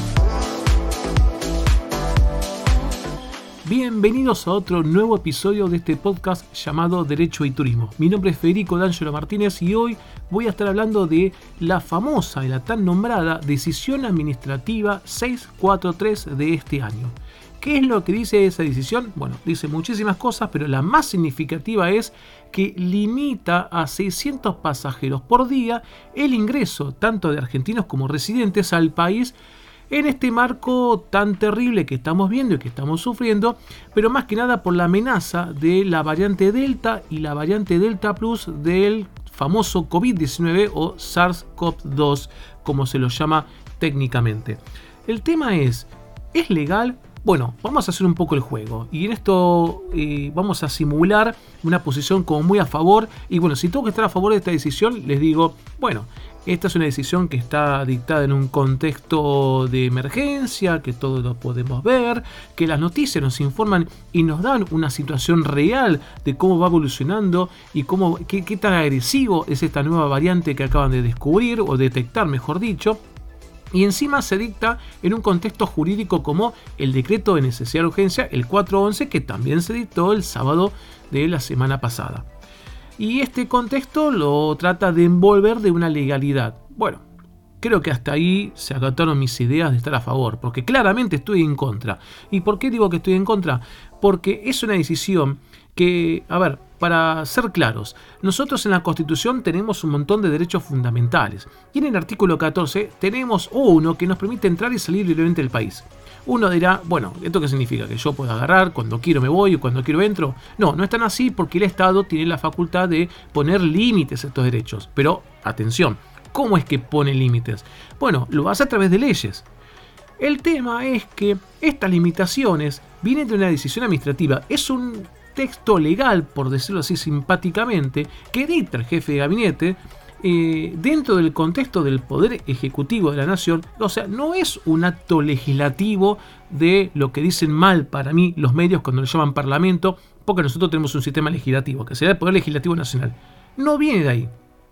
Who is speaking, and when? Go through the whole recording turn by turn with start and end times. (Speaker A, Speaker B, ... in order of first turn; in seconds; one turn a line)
Speaker A: 3.6-29.4
Speaker A: 29.9-73.0
Speaker A: 73.7-82.2
Speaker A: 83.0-87.0
Speaker A: 87.6-119.5
Speaker A: 120.2-144.3